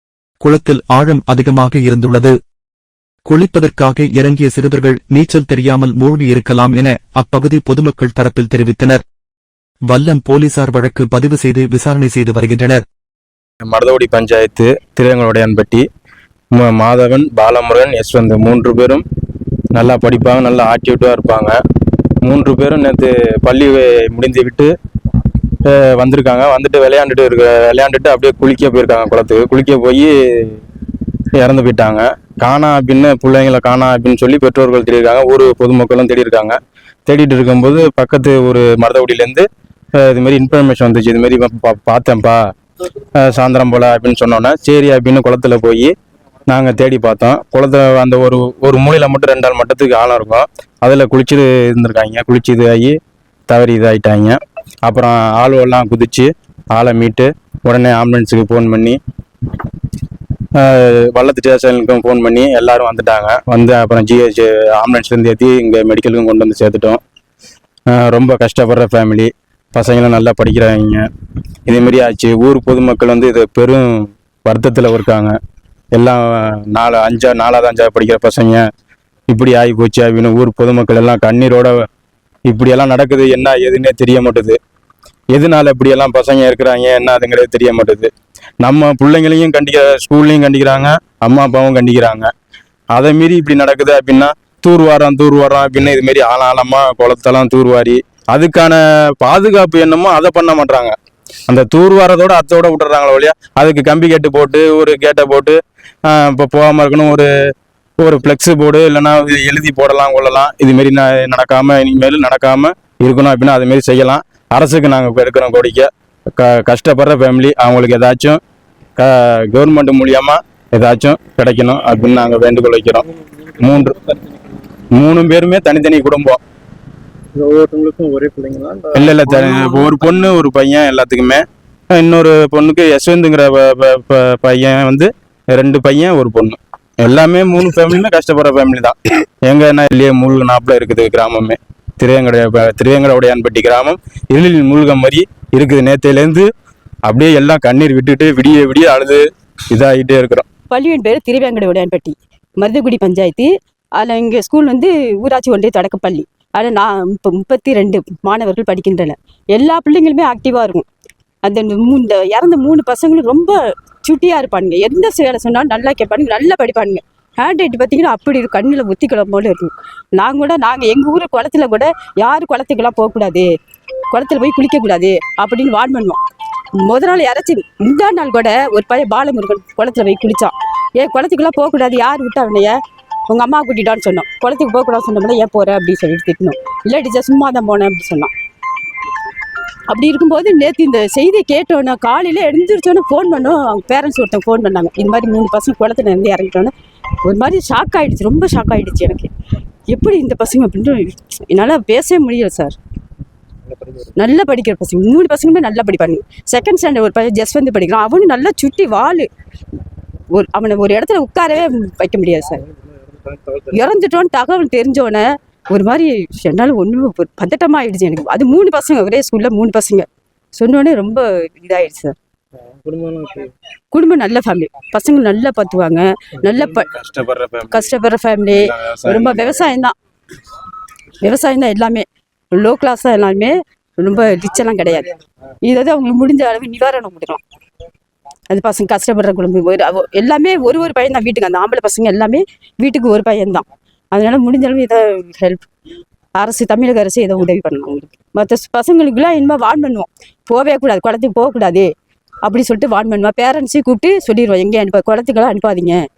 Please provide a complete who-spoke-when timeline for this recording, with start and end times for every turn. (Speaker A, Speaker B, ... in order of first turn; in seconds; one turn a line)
Speaker A: 0.4-2.3
Speaker A: 3.2-9.0
Speaker A: 9.9-12.8
Speaker B: 13.6-15.8
Speaker B: 16.5-19.0
Speaker B: 19.7-21.5
Speaker B: 22.2-24.7
Speaker B: 25.6-30.5
Speaker B: 31.4-39.4
Speaker B: 40.0-42.4
Speaker B: 43.2-45.9
Speaker B: 46.5-52.9
Speaker B: 53.5-59.0
Speaker B: 60.5-67.0
Speaker B: 67.9-71.0
Speaker B: 71.7-75.3
Speaker B: 76.0-78.6
Speaker B: 79.3-81.7
Speaker B: 82.5-84.6
Speaker B: 85.3-88.1
Speaker B: 88.6-92.3
Speaker B: 92.9-100.9
Speaker B: 101.5-107.3
Speaker B: 108.0-118.4
Speaker B: 119.0-123.0
Speaker C: 123.3-124.6
Speaker B: 123.6-124.0
Speaker B: 124.9-126.4
Speaker C: 127.3-129.9
Speaker B: 128.9-146.5
Speaker B: 147.1-150.4
Speaker D: 150.7-160.8
Speaker D: 161.4-173.5
Speaker D: 174.1-176.2
Speaker D: 176.8-182.8
Speaker D: 183.3-188.3
Speaker D: 189.9-196.7
Speaker D: 197.2-199.3
Speaker D: 199.9-202.8
Speaker C: 203.7-204.1
Speaker D: 204.2-209.3
Speaker D: 210.3-212.6
Speaker C: 212.6-213.8
Speaker D: 213.7-222.1
Speaker C: 222.6-223.5
Speaker D: 223.9-226.9
Speaker B: 226.8-227.9
Speaker D: 227.7-229.9
Speaker B: 228.5-229.6
Speaker D: 231.2-235.1
Speaker D: 235.6-237.4
Speaker D: 238.5-245.7
Speaker D: 246.4-251.9
Speaker D: 252.4-256.0